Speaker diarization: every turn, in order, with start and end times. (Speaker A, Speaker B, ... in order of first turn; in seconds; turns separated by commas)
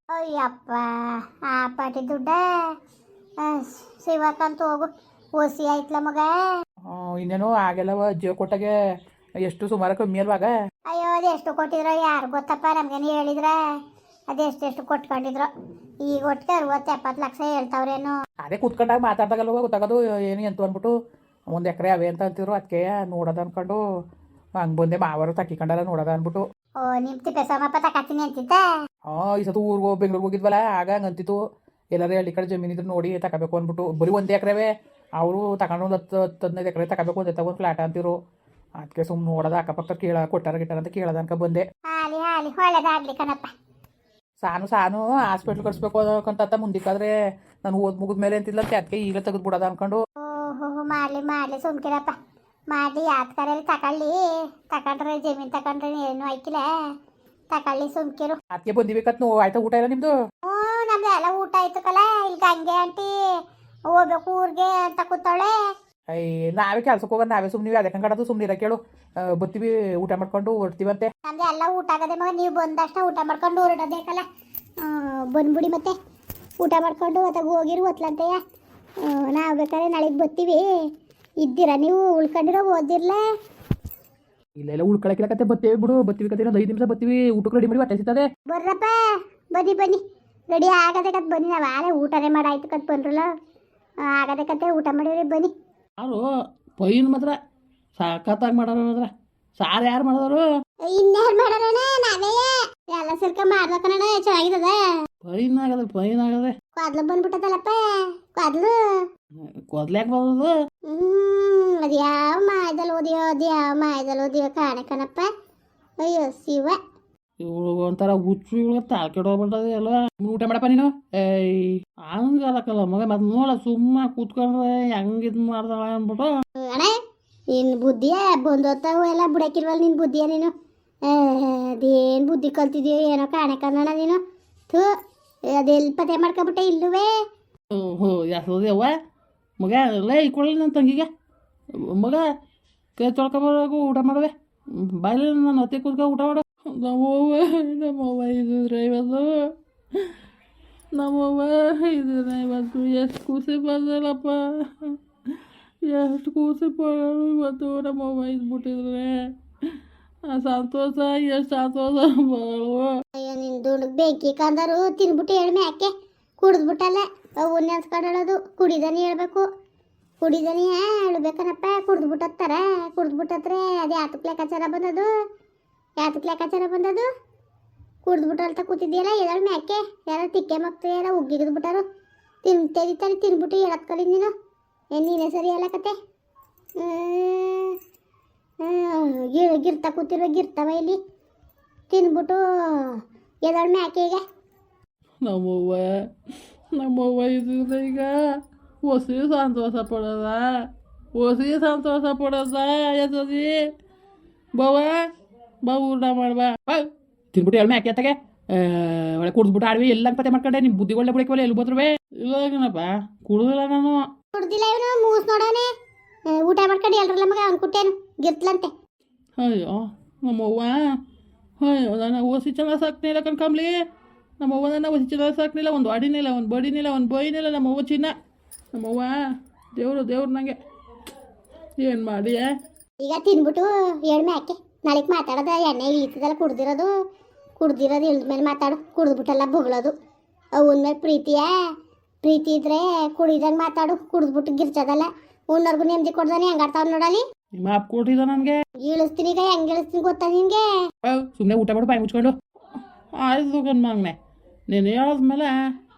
Speaker A: 0.1-2.7, Speaker A: 3.4-6.3, Speaker B: 6.9-8.7, Speaker B: 9.4-10.5, Speaker A: 10.9-13.6, Speaker A: 14.3-15.5, Speaker A: 16.1-18.1, Speaker B: 18.4-20.9, Speaker B: 21.5-23.8, Speaker B: 24.6-26.4, Speaker A: 26.8-28.6, Speaker B: 29.1-31.4, Speaker B: 31.9-38.2, Speaker B: 38.8-41.6, Speaker A: 41.9-43.5, Speaker B: 44.4-47.1, Speaker B: 47.6-50.0, Speaker A: 50.2-52.1, Speaker A: 52.7-56.7, Speaker A: 57.5-58.4, Speaker B: 58.5-60.1, Speaker A: 60.5-63.1, Speaker A: 63.9-65.5, Speaker B: 66.1-71.1, Speaker A: 71.2-74.3, Speaker A: 74.8-76.0, Speaker A: 76.6-78.4, Speaker A: 79.0-80.7, Speaker A: 81.4-83.2, Speaker B: 84.6-88.3, Speaker A: 88.5-89.0, Speaker A: 89.5-90.0, Speaker A: 90.5-93.3, Speaker A: 94.0-95.5, Speaker C: 96.0-96.3, Speaker C: 96.8-97.4, Speaker C: 98.0-100.4, Speaker A: 100.9-104.8, Speaker C: 105.2-106.5, Speaker A: 106.8-107.8, Speaker A: 108.4-108.8, Speaker C: 109.7-110.5, Speaker A: 110.9-115.3, Speaker A: 116.0-116.8, Speaker C: 117.4-126.3, Speaker A: 126.6-127.0, Speaker A: 127.5-130.5, Speaker A: 131.1-134.2, Speaker A: 135.5-137.1, Speaker C: 137.7-138.9, Speaker C: 139.6-141.1, Speaker C: 141.8-142.2, Speaker C: 143.0-150.1, Speaker C: 150.9-155.0, Speaker C: 155.8-159.2, Speaker C: 160.3-162.9, Speaker A: 163.2-169.5, Speaker A: 170.2-175.1, Speaker A: 176.0-177.1, Speaker A: 178.1-181.8, Speaker A: 182.4-184.3, Speaker A: 184.9-185.9, Speaker A: 186.8-187.8, Speaker A: 188.6-191.0, Speaker A: 191.9-194.2, Speaker C: 195.2-195.9, Speaker C: 196.7-198.2, Speaker C: 198.8-200.5, Speaker C: 201.2-203.6, Speaker C: 204.6-205.0, Speaker C: 205.6-206.7, Speaker B: 207.3-211.9, Speaker C: 212.2-214.1, Speaker A: 214.3-215.7, Speaker A: 216.3-218.7, Speaker C: 219.4-220.8, Speaker C: 221.6-223.8, Speaker C: 224.4-228.2, Speaker C: 228.7-229.2, Speaker C: 229.8-230.6, Speaker C: 231.8-232.5, Speaker A: 233.0-236.9, Speaker A: 237.6-239.9, Speaker A: 240.6-241.5, Speaker A: 242.2-247.2, Speaker C: 247.6-248.6, Speaker A: 248.8-250.6, Speaker C: 251.0-252.3, Speaker C: 253.1-254.2, Speaker C: 254.7-255.6